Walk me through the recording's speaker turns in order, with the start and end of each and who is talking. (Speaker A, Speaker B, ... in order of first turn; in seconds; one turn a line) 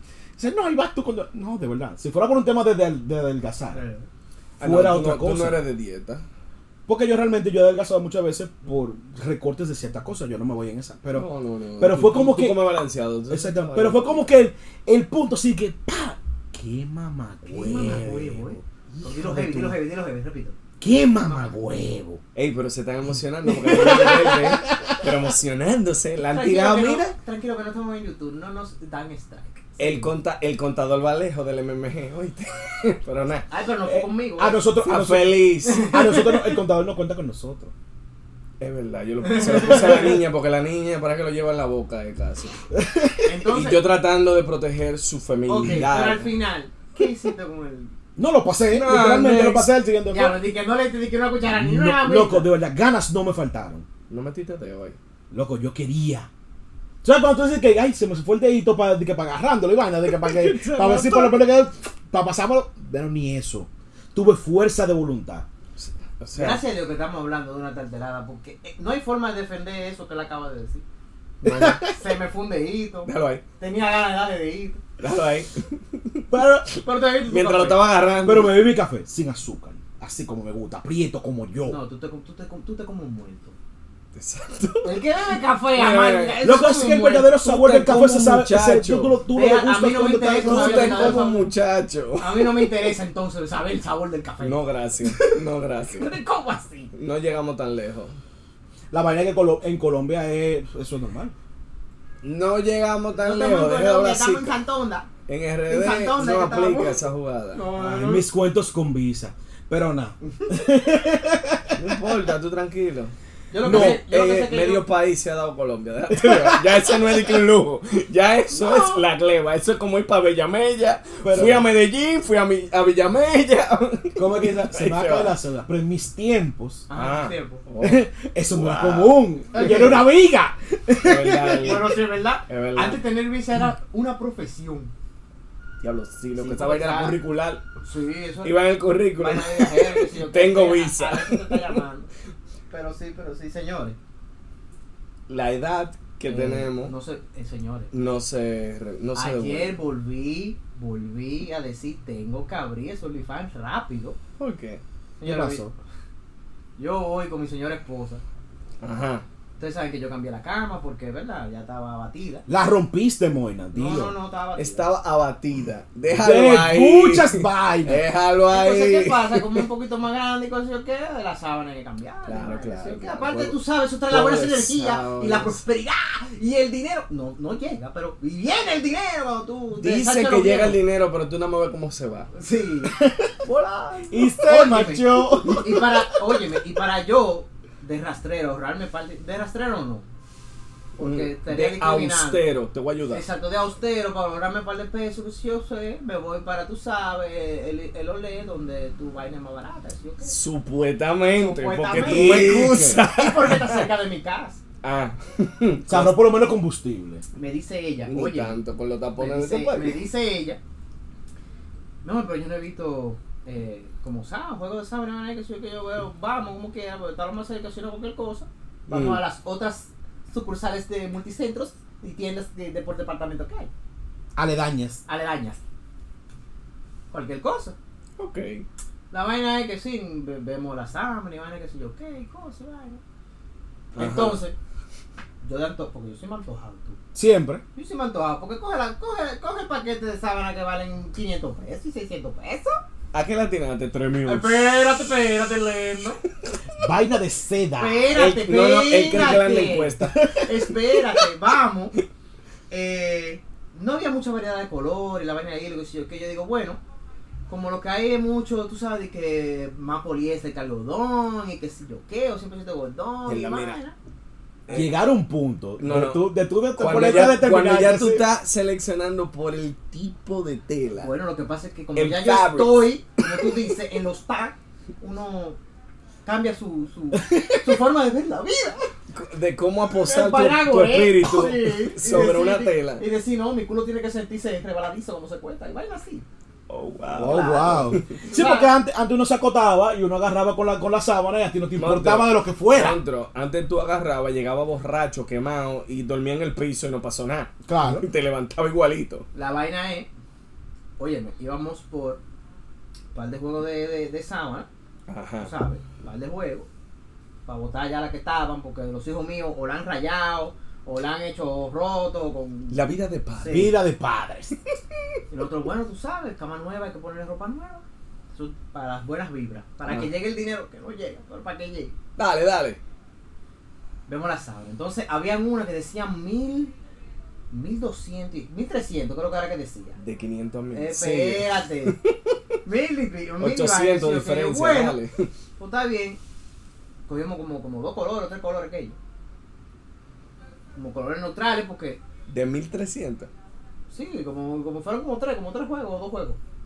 Speaker A: 0.4-3.8
Speaker B: 3.7-4.1
Speaker A: 4.6-5.7
Speaker C: 4.6-6.2
Speaker A: 6.9-11.3
Speaker C: 11.1-14.3
Speaker A: 11.8-12.6
Speaker A: 13.3-19.8
Speaker B: 17.4-20.6
Speaker A: 20.8-22.2
Speaker C: 22.3-27.1
Speaker A: 23.5-25.0
Speaker B: 26.3-30.1
Speaker C: 29.8-33.5
Speaker B: 33.5-34.6
Speaker A: 33.9-37.7
Speaker C: 34.8-36.0
Speaker B: 35.6-36.5
Speaker C: 38.6-42.5
Speaker B: 39.2-40.1
Speaker A: 39.7-40.0
Speaker A: 42.7-43.3
Speaker B: 43.2-43.8
Speaker C: 43.5-46.3
Speaker B: 45.5-47.9
Speaker A: 48.2-50.4
Speaker C: 48.7-49.7
Speaker B: 50.1-52.5
Speaker A: 51.5-53.9
Speaker C: 54.1-55.0
Speaker A: 55.3-56.3
Speaker A: 57.0-65.5
Speaker C: 60.1-61.4
Speaker C: 65.8-66.6
Speaker B: 66.3-70.8
Speaker C: 71.4-71.9
Speaker A: 71.5-71.9
Speaker B: 71.6-74.8
Speaker C: 73.0-73.4
Speaker C: 75.0-76.2
Speaker A: 76.3-76.7
Speaker B: 76.8-77.9
Speaker C: 77.3-78.5
Speaker A: 78.2-81.8
Speaker B: 81.7-83.5
Speaker C: 84.1-85.0
Speaker B: 84.8-87.3
Speaker C: 85.7-89.2
Speaker A: 86.4-91.2
Speaker B: 89.3-91.5
Speaker C: 90.4-92.9
Speaker B: 92.2-96.9
Speaker C: 94.4-96.1
Speaker C: 96.9-98.2
Speaker A: 98.9-101.3
Speaker C: 102.2-104.6
Speaker B: 103.2-105.1
Speaker C: 105.3-107.7
Speaker B: 105.7-108.2
Speaker A: 107.8-112.0
Speaker C: 111.8-125.4
Speaker B: 113.5-114.8
Speaker A: 113.6-114.0
Speaker A: 116.2-117.2
Speaker B: 118.5-119.0
Speaker A: 121.2-121.7
Speaker A: 124.2-126.8
Speaker B: 126.9-127.6
Speaker C: 126.9-130.0
Speaker A: 127.8-131.8
Speaker C: 131.0-133.0
Speaker B: 131.6-134.9
Speaker C: 135.8-137.6
Speaker B: 136.3-137.2
Speaker B: 137.8-138.5
Speaker C: 138.4-141.8
Speaker B: 139.2-142.1
Speaker B: 142.7-144.0
Speaker C: 145.3-146.9
Speaker B: 146.3-147.9
Speaker C: 147.9-149.8
Speaker B: 149.1-154.2
Speaker C: 154.4-154.8
Speaker B: 155.2-155.7
Speaker A: 155.2-155.7
Speaker B: 156.8-158.2
Speaker C: 158.8-159.2
Speaker B: 159.6-162.4
Speaker A: 162.5-164.1
Speaker B: 163.7-164.9
Speaker C: 164.6-169.7
Speaker A: 166.1-168.0
Speaker B: 168.5-180.8
Speaker C: 172.3-175.6
Speaker C: 179.8-182.3
Speaker B: 182.3-182.9
Speaker A: 182.9-183.3
Speaker C: 183.5-184.1
Speaker B: 184.0-190.1
Speaker A: 184.1-185.9
Speaker B: 191.0-192.4
Speaker C: 191.0-193.3
Speaker B: 193.1-200.3
Speaker C: 200.2-203.9
Speaker B: 201.3-204.6
Speaker A: 201.9-203.0
Speaker C: 204.8-206.2
Speaker A: 205.9-207.2
Speaker B: 207.3-208.6
Speaker C: 208.1-210.0
Speaker B: 209.2-210.6
Speaker B: 212.0-223.7
Speaker C: 218.9-219.2
Speaker A: 224.3-225.0
Speaker B: 225.1-225.6
Speaker B: 227.1-227.8
Speaker C: 228.2-228.6
Speaker B: 229.1-233.0
Speaker C: 233.9-234.4
Speaker B: 233.9-234.5
Speaker B: 235.4-237.0
Speaker A: 237.1-237.6
Speaker B: 237.7-242.8
Speaker C: 243.1-244.9
Speaker B: 244.2-246.2
Speaker A: 246.8-248.1
Speaker B: 247.8-251.9
Speaker C: 248.1-250.6
Speaker B: 252.7-256.8
Speaker B: 257.5-263.9
Speaker C: 263.3-263.8
Speaker C: 264.7-264.9
Speaker A: 264.7-268.2
Speaker C: 265.8-266.2
Speaker C: 266.8-271.1
Speaker B: 271.0-275.6
Speaker C: 271.9-273.6
Speaker B: 276.2-278.9
Speaker A: 277.1-277.8
Speaker C: 279.1-283.0
Speaker B: 280.0-286.2
Speaker C: 286.7-288.1
Speaker A: 287.1-293.0
Speaker B: 287.2-288.7
Speaker C: 291.8-299.3
Speaker A: 297.7-298.0
Speaker B: 299.3-300.1
Speaker B: 301.0-302.2
Speaker B: 303.1-304.7
Speaker C: 305.1-305.5
Speaker B: 305.4-306.7
Speaker B: 307.4-312.8
Speaker C: 312.7-313.7
Speaker B: 313.4-313.7
Speaker A: 313.5-314.5
Speaker B: 315.3-321.9
Speaker C: 319.9-320.1
Speaker C: 322.2-322.8
Speaker B: 324.1-326.7
Speaker B: 327.5-330.0
Speaker C: 330.0-332.1
Speaker B: 330.7-331.9
Speaker B: 332.6-335.0
Speaker C: 333.4-335.3
Speaker B: 335.6-336.2
Speaker B: 337.1-339.0
Speaker B: 340.7-342.0
Speaker C: 342.3-343.3
Speaker B: 343.9-346.4